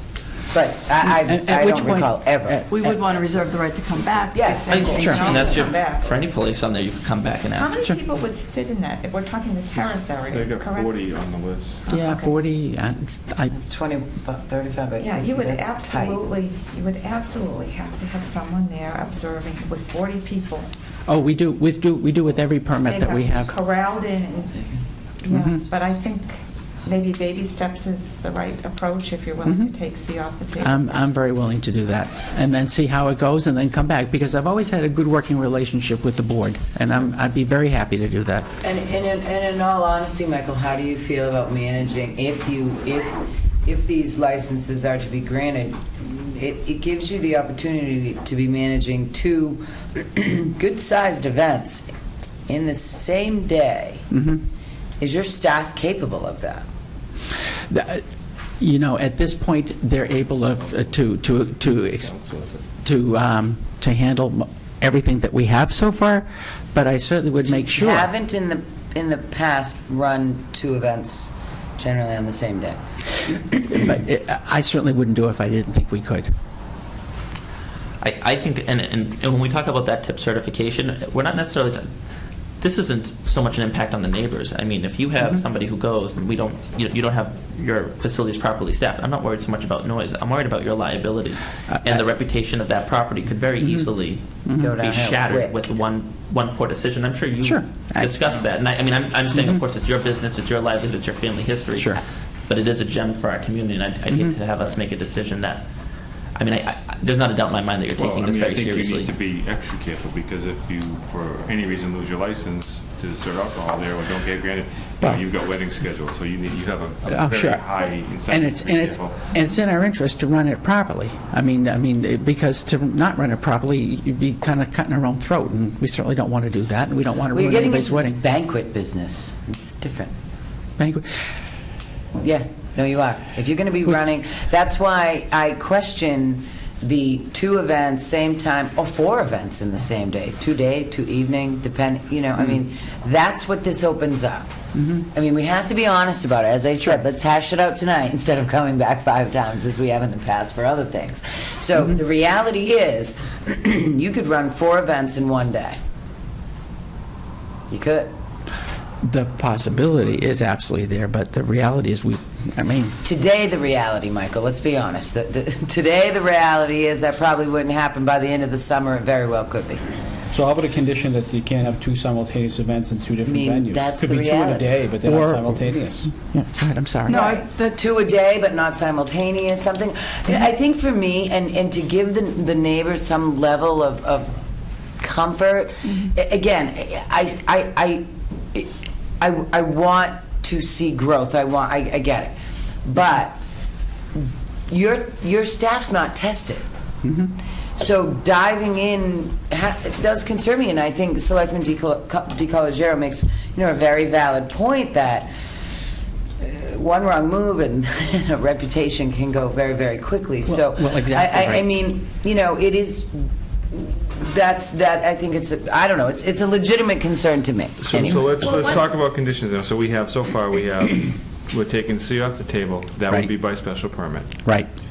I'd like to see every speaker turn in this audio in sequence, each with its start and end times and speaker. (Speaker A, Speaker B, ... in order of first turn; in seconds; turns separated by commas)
Speaker A: 0.5-2.6, Speaker B: 1.0-3.2, Speaker C: 2.7-5.6, Speaker A: 4.3-5.6, Speaker D: 4.7-7.7, Speaker E: 4.7-6.2, Speaker B: 4.9-5.2, Speaker E: 7.5-11.1, Speaker F: 10.2-11.8, Speaker E: 11.8-12.4, Speaker B: 11.9-13.5, Speaker A: 13.5-16.2, Speaker E: 15.0-20.7, Speaker B: 21.1-23.5, Speaker E: 22.8-30.9, Speaker B: 29.4-29.7, Speaker B: 30.6-38.5, Speaker A: 38.6-51.9, Speaker A: 52.5-54.0, Speaker B: 54.1-54.4, Speaker A: 55.0-56.6, Speaker B: 57.7-58.0, Speaker B: 58.6-62.2, Speaker F: 61.6-62.6, Speaker B: 62.8-68.1, Speaker A: 67.5-72.8, Speaker B: 73.5-76.3, Speaker D: 78.0-81.9, Speaker D: 82.6-105.6, Speaker B: 91.7-92.0, Speaker B: 94.4-94.8, Speaker A: 94.6-95.5, Speaker B: 97.4-98.2, Speaker B: 101.7-102.0, Speaker B: 104.1-104.3, Speaker D: 106.3-109.1, Speaker F: 108.0-119.2, Speaker B: 117.1-117.6, Speaker B: 118.3-128.2, Speaker A: 127.3-130.1, Speaker B: 130.8-131.0, Speaker A: 132.2-155.8, Speaker A: 157.7-158.1, Speaker B: 159.0-163.0, Speaker A: 163.0-169.8, Speaker G: 170.3-176.1, Speaker A: 173.2-174.7, Speaker B: 175.0-177.2, Speaker C: 177.1-177.8, Speaker A: 177.1-184.3, Speaker A: 185.0-188.7, Speaker A: 189.2-192.3, Speaker A: 192.8-193.4, Speaker A: 194.1-196.6, Speaker B: 197.0-197.3, Speaker A: 197.8-205.3, Speaker A: 206.4-218.5, Speaker B: 210.4-211.7, Speaker F: 217.8-224.3, Speaker E: 218.4-218.8